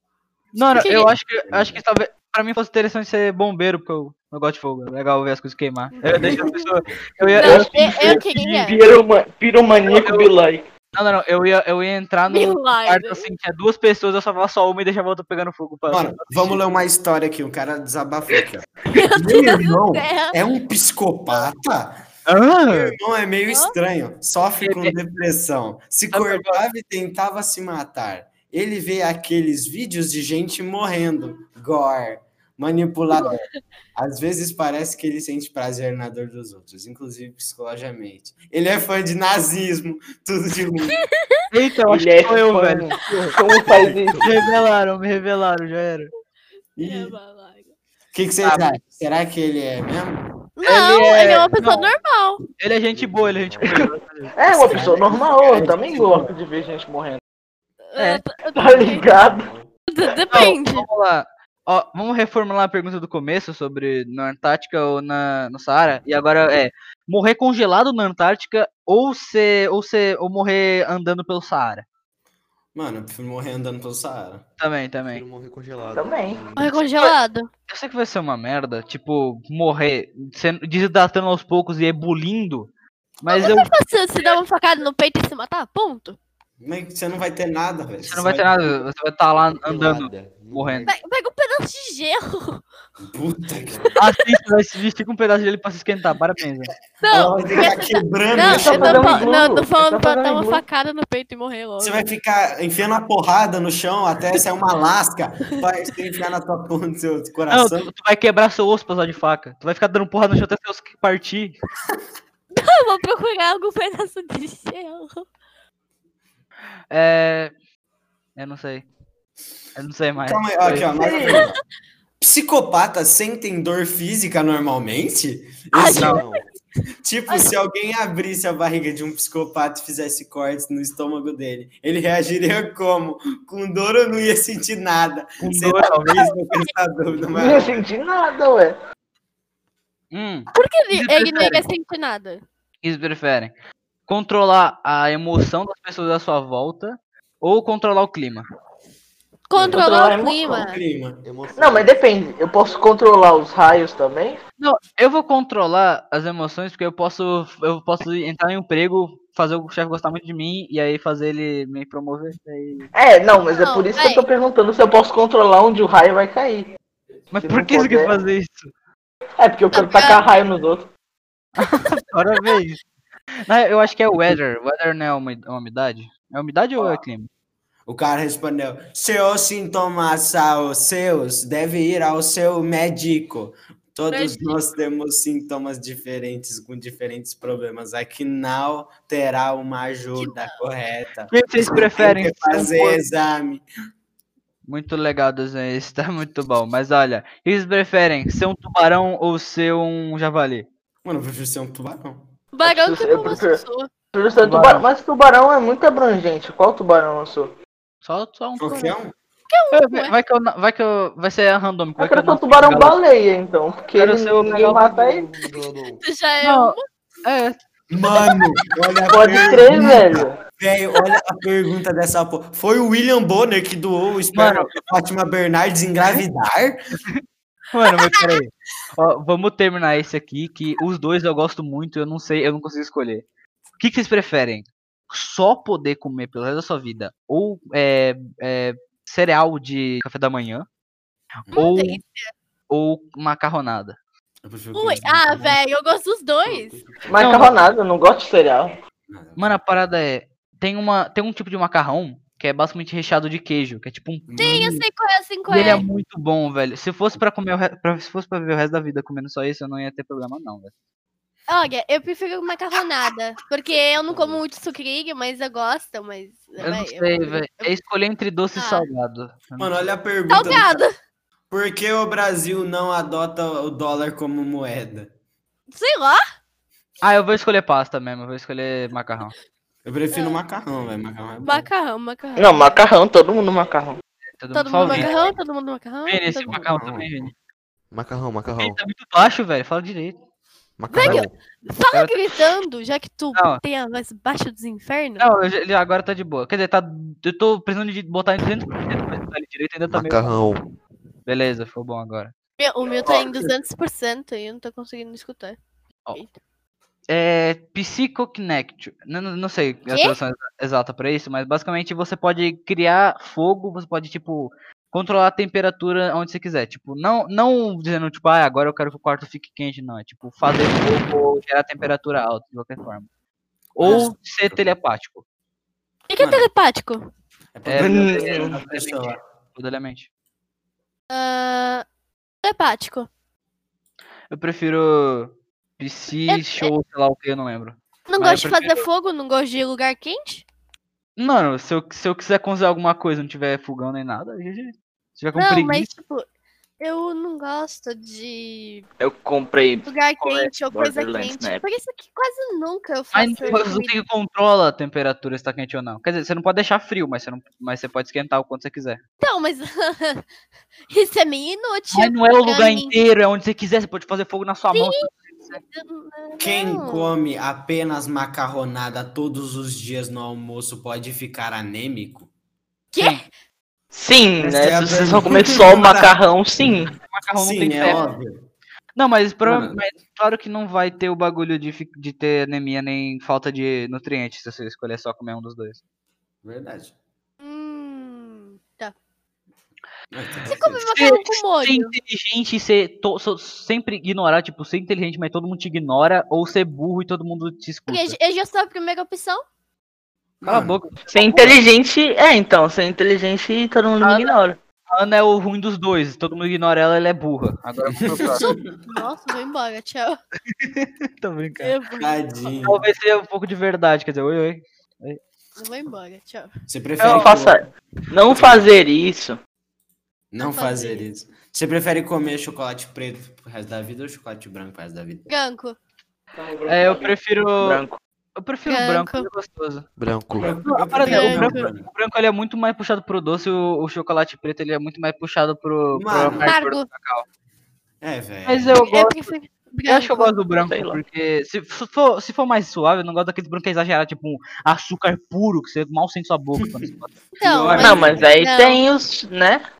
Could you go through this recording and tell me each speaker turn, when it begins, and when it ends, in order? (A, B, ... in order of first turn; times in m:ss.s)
0:00.6-0:08.6 A
0:00.6-0:01.8 B
0:00.8-0:01.1 C
0:06.0-0:06.7 C
0:06.1-0:06.5 B
0:07.4-0:08.8 C
0:07.4-0:10.7 D
0:09.9-0:10.3 A
0:10.9-0:16.6 A
0:12.3-0:13.3 C
0:15.9-0:22.0 B
0:18.9-0:20.4 C
0:22.3-0:23.0 A
0:22.7-0:33.4 B
0:24.6-0:25.0 A
0:26.1-0:26.6 A
0:34.0-0:41.0 B
0:41.5-0:43.4 A
0:41.9-0:44.2 D
0:43.6-0:45.0 E
0:44.2-0:46.1 A
0:46.8-0:47.2 B
0:46.8-0:47.7 C
0:48.1-0:50.2 B
0:48.4-0:48.8 A
0:50.6-0:52.4 C
0:50.6-0:51.9 A
0:52.6-0:55.0 A
0:52.9-0:53.9 E
0:54.4-0:57.2 D
0:54.5-0:56.3 B
0:57.9-0:59.0 C
0:58.0-0:58.2 A
0:58.6-0:59.5 D
0:58.7-0:59.7 E
0:59.9-1:00.9 C
1:00.3-1:11.8 A
1:12.8-1:14.4 B
1:14.6-1:15.2 A
1:15.1-1:16.7 E
1:15.9-1:16.4 D
1:16.6-1:17.5 C
1:16.7-1:17.2 A
1:17.7-1:22.7 A
1:23.2-1:24.4 A
1:23.3-1:26.2 C
1:26.6-1:28.7 B
1:28.0-1:30.9 A
1:29.4-1:31.0 E
1:30.9-1:32.6 C
1:33.0-1:33.9 B
1:33.6-1:33.9 E
1:33.9-1:34.4 C
1:34.0-1:36.7 A
1:37.0-1:42.0 C
1:37.1-1:39.6 B
1:38.4-1:40.6 D
1:41.8-1:47.9 B
1:47.5-1:51.6 A
1:52.6-1:55.3 C
1:56.9-1:57.5 A
1:58.4-1:58.9 A
1:59.8-2:00.9 A
2:00.2-2:01.6 B
2:00.6-2:01.4 D
2:01.2-2:01.6 C
2:02.2-2:06.2 B
2:05.7-2:06.4 C
2:05.9-2:06.5 E
2:07.0-2:17.9 B
2:15.4-2:16.3 A
2:16.1-2:16.6 C
2:17.3-2:18.8 D
2:20.1-2:21.7 A
2:20.6-2:22.4 C
2:22.8-2:23.5 A
2:24.1-2:28.5 A
2:29.5-2:30.8 C
2:29.6-2:29.8 E
2:29.6-2:29.9 B
2:29.7-2:30.6 D
2:30.4-2:31.2 B
2:31.2-2:32.0 E
2:31.6-2:34.4 D
2:34.6-2:42.9 A
2:42.9-2:46.7 D
2:43.6-2:44.2 C
2:47.3-2:48.7 A
2:47.4-2:48.2 D
2:49.4-2:50.9 D
2:49.7-2:50.3 C
2:51.6-2:52.8 A
2:53.5-2:57.3 A
2:57.9-3:13.6 B
3:04.1-3:04.5 C
3:10.2-3:10.6 C
3:11.3-3:13.0 A
3:14.7-3:20.7 A
3:21.0-3:22.3 B
3:22.5-3:23.9 C
3:22.6-3:23.6 D
3:24.1-3:27.5 D
3:24.4-3:24.9 A
3:28.0-3:28.9 A
3:28.6-3:29.1 B
3:29.5-3:30.1 C
3:29.7-3:33.0 A
3:32.0-3:35.3 D
3:34.0-3:34.8 A
3:34.6-3:36.0 E
3:36.0-3:36.8 C
3:36.4-3:37.6 A
3:37.9-3:46.8 B
3:38.1-3:38.4 C
3:39.1-3:40.4 D
3:44.3-3:44.8 A
3:47.7-3:53.2 A
3:47.9-3:48.4 C
3:53.8-4:00.7 A
4:01.5-4:02.0 A
4:01.5-4:02.3 C
4:02.7-4:04.0 A
4:04.4-4:05.6 B
4:04.7-4:06.8 C
4:06.4-4:07.8 E
4:07.1-4:08.7 D
4:07.2-4:07.6 A
4:09.1-4:09.6 B
4:09.4-4:14.3 A
4:14.3-4:14.9 B
4:14.4-4:15.8 C
4:15.5-4:20.7 A
4:15.6-4:15.8 B
4:21.5-4:27.7 C
4:24.0-4:24.4 E
4:26.6-4:29.9 A
4:28.6-4:28.9 C
4:29.6-4:30.8 B
4:30.3-4:30.9 C
4:31.5-4:35.1 B
4:35.7-4:36.2 C
4:37.0-4:39.3 A
4:39.8-4:41.7 B
4:40.1-4:40.4 C
4:41.4-4:42.8 C
4:42.4-4:44.0 D
4:44.3-4:45.2 A
4:44.5-4:46.7 C
4:44.8-4:45.3 B
4:46.1-4:47.3 A
4:46.6-4:47.3 B
4:47.9-4:48.8 E
4:48.6-4:50.2 A
4:50.8-4:51.4 E
4:50.9-4:55.2 C
4:51.9-4:52.4 A
4:53.4-4:53.6 A
4:55.2-5:00.4 A
4:59.9-5:00.7 E
5:01.3-5:02.3 A
5:02.6-5:05.6 C
5:03.1-5:03.5 B
5:07.1-5:23.1 A
5:09.9-5:10.2 C
5:23.8-5:25.2 A
5:23.8-5:24.7 B
5:26.1-5:27.0 C
5:26.2-5:26.5 B
5:27.6-5:29.2 B
5:27.7-5:30.1 A
5:27.8-5:28.5 D
5:31.1-5:31.8 C
5:32.4-5:33.1 C
5:34.3-5:38.8 A
5:36.3-5:36.7 C
5:38.1-5:40.5 C
5:41.2-5:45.9 A
5:45.3-5:46.3 C
5:46.8-5:48.9 C
5:49.0-5:49.9 D
5:49.9-5:54.0 C
5:50.2-5:50.5 A
5:50.7-5:51.6 D
5:53.1-5:59.0 A
5:59.2-6:00.2 C
6:00.9-6:03.0 C
6:01.9-6:05.6 A
6:04.7-6:07.2 C
6:06.4-6:12.3 B
6:12.9-6:13.2 C
6:13.0-6:13.2 A
6:13.9-6:16.9 D
6:14.4-6:16.1 B
6:17.1-6:18.0 A
6:17.4-6:18.4 B
6:19.0-6:25.8 A
6:19.4-6:19.8 B
6:26.4-6:26.9 B
6:27.4-6:29.0 C
6:30.1-6:30.9 B
6:30.5-6:31.9 C
6:30.9-6:38.2 A
6:37.9-6:39.4 C
6:40.4-6:40.8 B
6:40.4-6:41.6 A
6:41.1-6:44.6 D
6:44.0-6:44.3 A
6:44.9-6:48.5 A
6:47.9-6:48.8 B
6:48.8-6:50.2 C
6:50.5-6:51.7 A
6:51.6-6:52.2 C
6:52.0-6:52.8 B
6:52.6-6:55.2 A
6:55.6-6:56.5 C
6:56.7-6:57.6 B
6:57.0-6:57.3 A
6:57.1-6:59.4 D
6:58.3-6:58.7 B
7:00.3-7:05.3 B
7:00.4-7:01.1 C
7:05.3-7:05.8 C
7:06.3-7:08.0 D
7:06.7-7:07.8 A
7:08.4-7:09.9 A
7:08.7-7:09.3 C
7:10.0-7:10.6 E
7:10.4-7:11.9 B
7:10.6-7:17.2 A
7:11.0-7:11.7 C
7:15.9-7:16.5 B
7:16.4-7:16.9 C
7:18.0-7:18.8 B
7:18.5-7:19.4 A
7:18.8-7:20.3 C
7:19.9-7:27.2 A
7:20.7-7:21.0 D
7:27.4-7:28.8 C
7:27.4-7:28.3 B
7:27.8-7:29.6 D